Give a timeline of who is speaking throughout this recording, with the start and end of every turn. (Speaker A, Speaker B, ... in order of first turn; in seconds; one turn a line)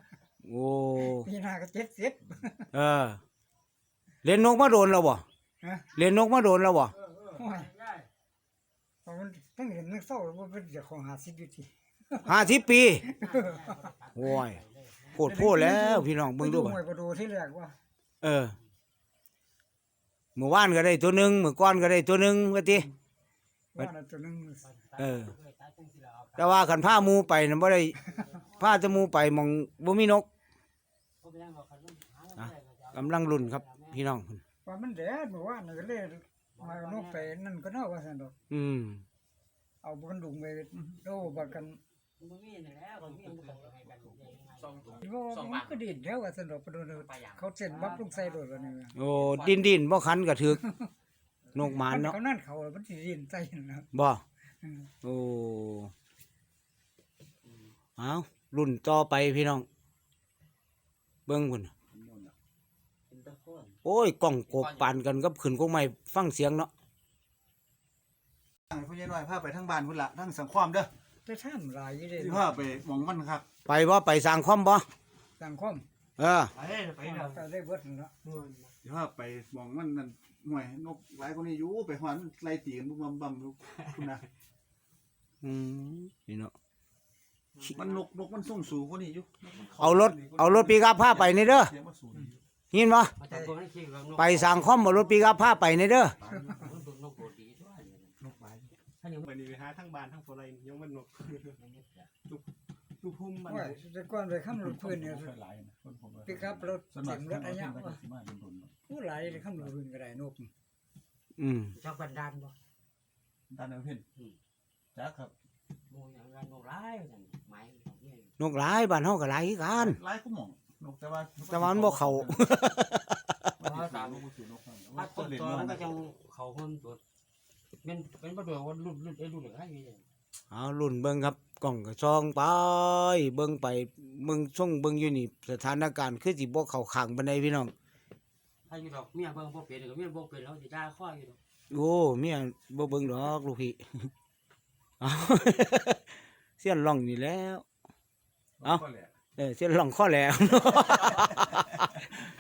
Speaker A: 0.4-1.3
Speaker B: 1.1-2.7
Speaker A: 2.7-3.2
Speaker A: 4.2-5.2
Speaker B: 5.6-5.9
Speaker A: 5.9-6.9
Speaker C: 7.1-8.1
Speaker B: 7.3-7.7
Speaker B: 9.0-12.4
Speaker A: 12.2-13.1
Speaker B: 13.0-13.4
Speaker C: 13.1-15.2
Speaker A: 14.1-14.6
Speaker A: 15.1-16.8
Speaker B: 15.2-17.8
Speaker A: 18.2-18.5
Speaker A: 20.4-22.9
Speaker B: 23.7-24.6
Speaker C: 24.6-27.2
Speaker A: 25.0-25.3
Speaker A: 26.4-28.0
Speaker C: 28.0-28.8
Speaker A: 28.6-30.2
Speaker C: 31.2-34.0
Speaker A: 32.4-34.4
Speaker B: 34.6-38.3
Speaker C: 36.5-37.3
Speaker A: 38.5-39.0
Speaker B: 39.8-41.8
Speaker C: 42.2-45.0
Speaker B: 45.0-49.0
Speaker C: 47.1-48.8
Speaker A: 48.9-50.6
Speaker B: 50.5-50.9
Speaker A: 51.5-52.2
Speaker B: 51.6-53.9
Speaker A: 53.9-54.2
Speaker B: 54.6-54.9
Speaker A: 55.0-55.9
Speaker A: 58.0-59.6
Speaker A: 61.3-61.7
Speaker D: 61.9-62.3
Speaker C: 63.1-63.7
Speaker A: 63.8-66.7
Speaker D: 68.7-70.9
Speaker B: 71.2-72.5
Speaker D: 72.2-73.5
Speaker A: 73.7-74.8
Speaker B: 75.4-75.8
Speaker A: 76.2-76.5
Speaker C: 76.5-77.3
Speaker E: 76.6-77.2
Speaker B: 77.0-78.1
Speaker E: 78.2-78.7
Speaker D: 78.8-84.2
Speaker A: 85.4-86.5
Speaker D: 87.7-92.4
Speaker A: 89.8-91.7
Speaker A: 92.7-93.2
Speaker C: 93.2-95.3
Speaker A: 94.2-96.2
Speaker C: 96.2-98.1
Speaker D: 98.2-98.7
Speaker C: 99.0-99.3
Speaker E: 99.3-101.5
Speaker C: 101.5-102.1
Speaker E: 103.0-103.8
Speaker B: 103.4-105.3
Speaker D: 104.5-108.8
Speaker B: 106.2-108.0
Speaker B: 108.8-110.5
Speaker D: 109.3-109.7
Speaker A: 111.4-111.7
Speaker C: 111.7-112.5
Speaker D: 113.5-114.0
Speaker D: 114.9-115.3
Speaker C: 115.9-118.3
Speaker A: 118.4-120.0
Speaker D: 119.8-122.5
Speaker A: 121.5-123.5
Speaker D: 123.6-125.9
Speaker C: 123.6-124.2
Speaker C: 124.9-127.0
Speaker C: 127.8-130.0
Speaker A: 130.5-137.7
Speaker C: 138.7-141.4
Speaker A: 141.7-144.1
Speaker A: 145.0-146.0
Speaker A: 146.6-147.6
Speaker D: 148.6-149.1
Speaker A: 149.4-152.1